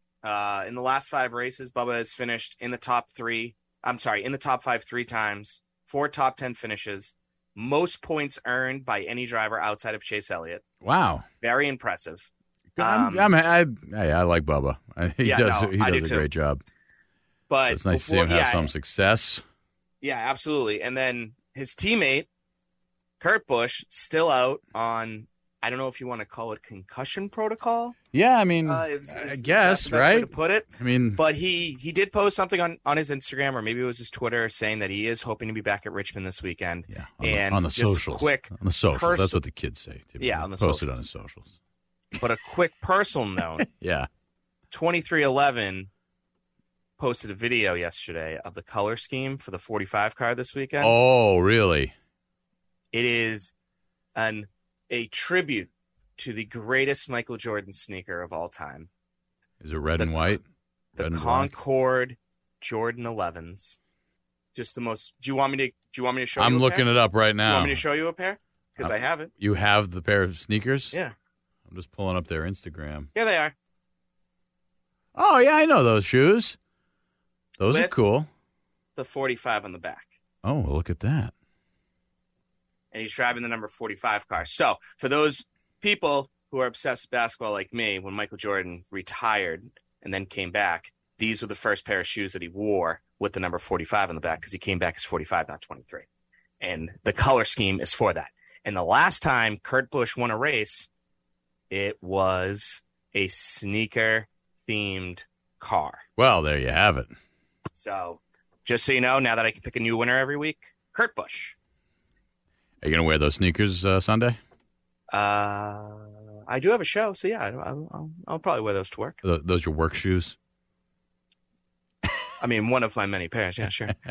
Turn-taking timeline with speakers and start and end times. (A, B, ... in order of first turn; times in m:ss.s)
0:00.2-0:10.6 A
0:10.8-0:11.2 B
0:11.4-0:13.3 A
0:12.8-0:16.6 B
0:15.2-0:16.2 A
0:17.5-0:18.7 A
0:17.7-0:19.4 B
0:20.0-0:22.3 A
0:23.2-0:28.0 A
0:28.1-0:31.2 B
0:28.6-0:39.4 A
0:36.9-0:41.5 B
0:40.2-0:41.0 A
0:42.2-0:43.6 A
0:43.6-0:44.1 B
0:44.7-0:45.9 A
0:47.0-0:50.9 A
0:50.8-0:51.9 B
0:52.9-0:53.5 A
0:54.1-0:58.9 A
0:59.6-1:00.4 B
1:00.0-1:00.4 A
1:01.0-1:03.8 A
1:01.0-1:01.5 B
1:04.5-1:06.9 A
1:06.4-1:07.8 B
1:07.4-1:09.3 A
1:08.8-1:10.9 B
1:11.7-1:13.1 B
1:13.1-1:13.5 A
1:15.1-1:16.6 B
1:17.6-1:18.3 B
1:17.7-1:17.9 A
1:19.0-1:20.1 A
1:20.4-1:21.3 B
1:22.9-1:36.0 A
1:36.6-1:40.9 A
1:41.7-1:46.0 A
1:46.2-1:47.1 B
1:47.7-1:51.5 A
1:52.8-1:54.4 B
1:55.1-1:59.2 A
1:59.2-2:00.4 B
2:02.4-2:04.0 A